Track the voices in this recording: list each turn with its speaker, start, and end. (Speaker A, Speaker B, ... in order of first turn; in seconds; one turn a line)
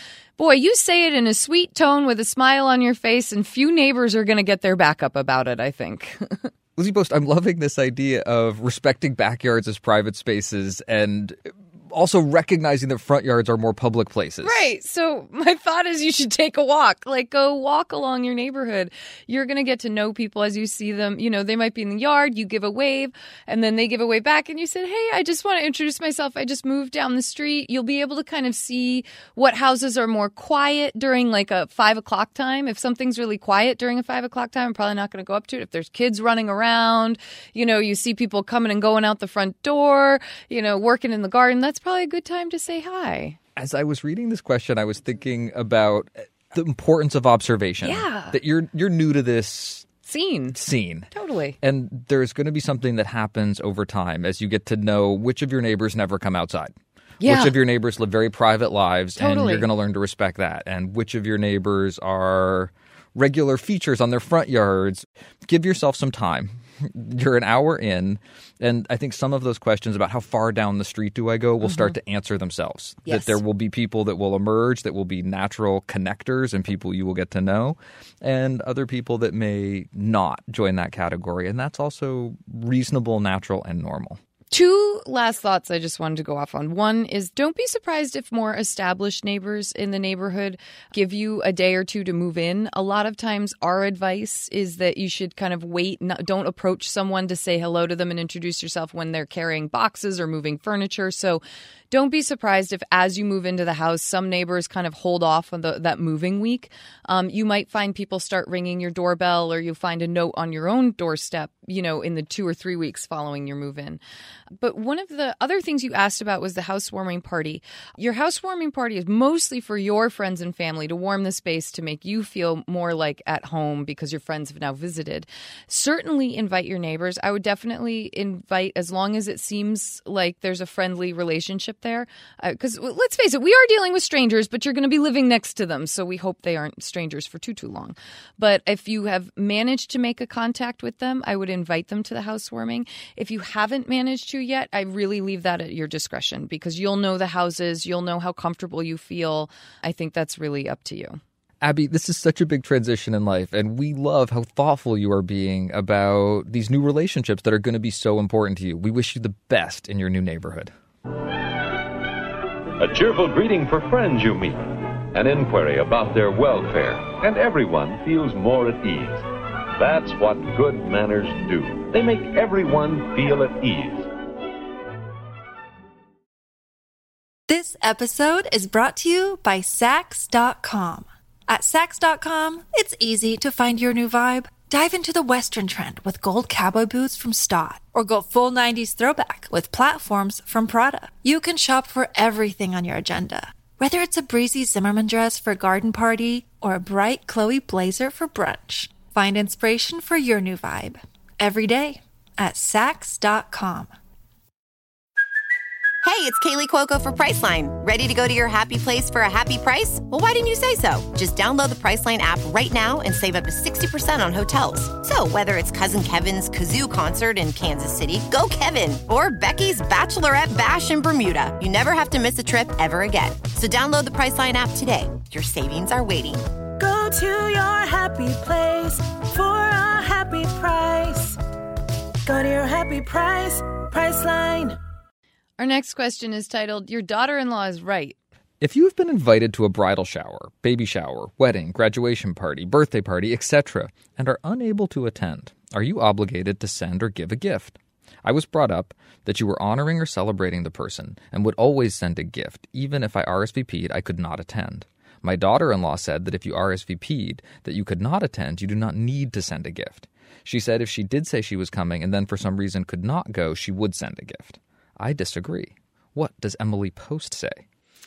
Speaker A: 0.4-6.5
Speaker B: 6.8-14.7
Speaker A: 14.4-43.4
Speaker B: 43.5-49.9
Speaker A: 47.8-48.4
Speaker A: 50.0-50.6
Speaker B: 50.5-84.2
Speaker A: 51.1-51.6
Speaker A: 57.2-57.5
Speaker A: 59.2-59.6
Speaker A: 71.6-71.9
Speaker A: 73.0-73.4
Speaker A: 84.5-114.0
Speaker A: 114.6-151.2
Speaker B: 151.6-160.7
Speaker C: 162.8-164.6
Speaker C: 165.1-169.2
Speaker C: 169.8-174.1
Speaker D: 177.5-203.9
Speaker E: 206.0-226.4
Speaker F: 226.8-231.4
Speaker F: 232.2-234.8
Speaker A: 235.6-238.2
Speaker B: 238.6-267.6